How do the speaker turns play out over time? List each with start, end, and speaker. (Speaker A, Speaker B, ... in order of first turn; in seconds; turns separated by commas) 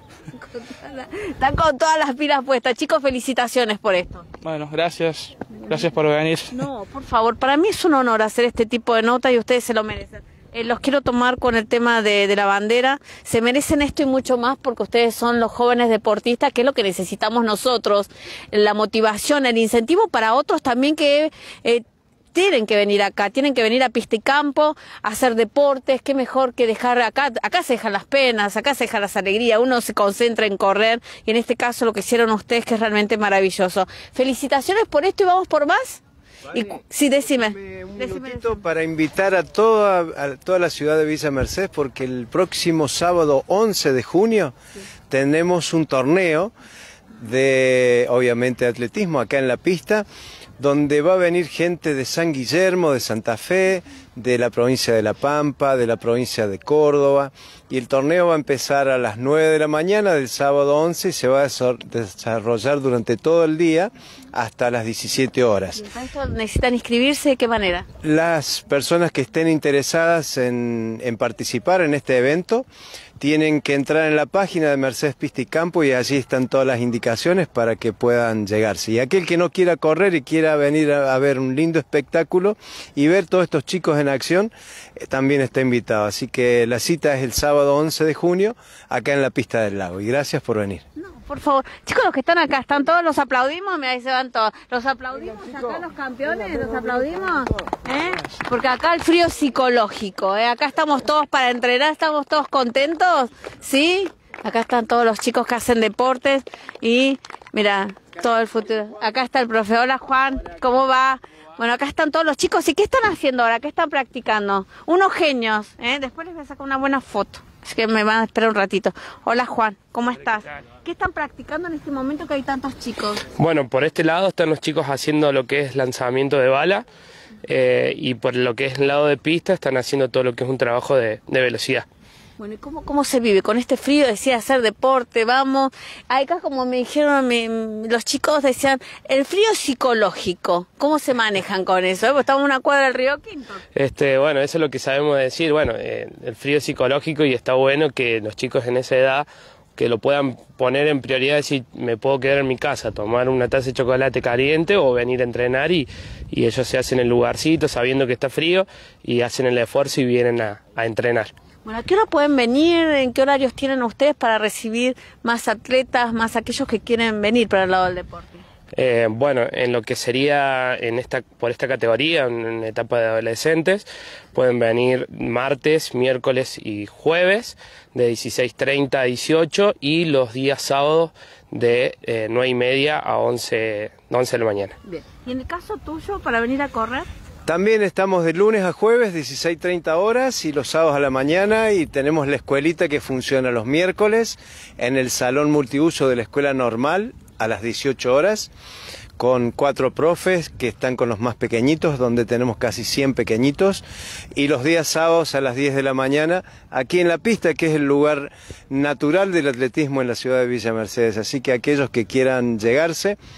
Speaker A: 0.3-4.3, Speaker B: 4.4-6.5, Speaker A: 6.5-38.5, Speaker C: 37.4-44.5, Speaker C: 45.1-46.5, Speaker C: 47.2-50.0, Speaker C: 50.6-65.8, Speaker A: 65.8-67.9, Speaker C: 68.0-72.7, Speaker C: 73.2-90.8, Speaker A: 91.0-123.2, Speaker D: 123.3-126.8, Speaker D: 127.5-131.9, Speaker A: 132.4-143.6, Speaker D: 143.8-149.3, Speaker D: 149.8-161.3, Speaker A: 161.7-168.4, Speaker D: 168.7-184.8, Speaker A: 184.9-187.1, Speaker C: 187.5-198.5, Speaker C: 199.2-203.8, Speaker C: 204.3-213.2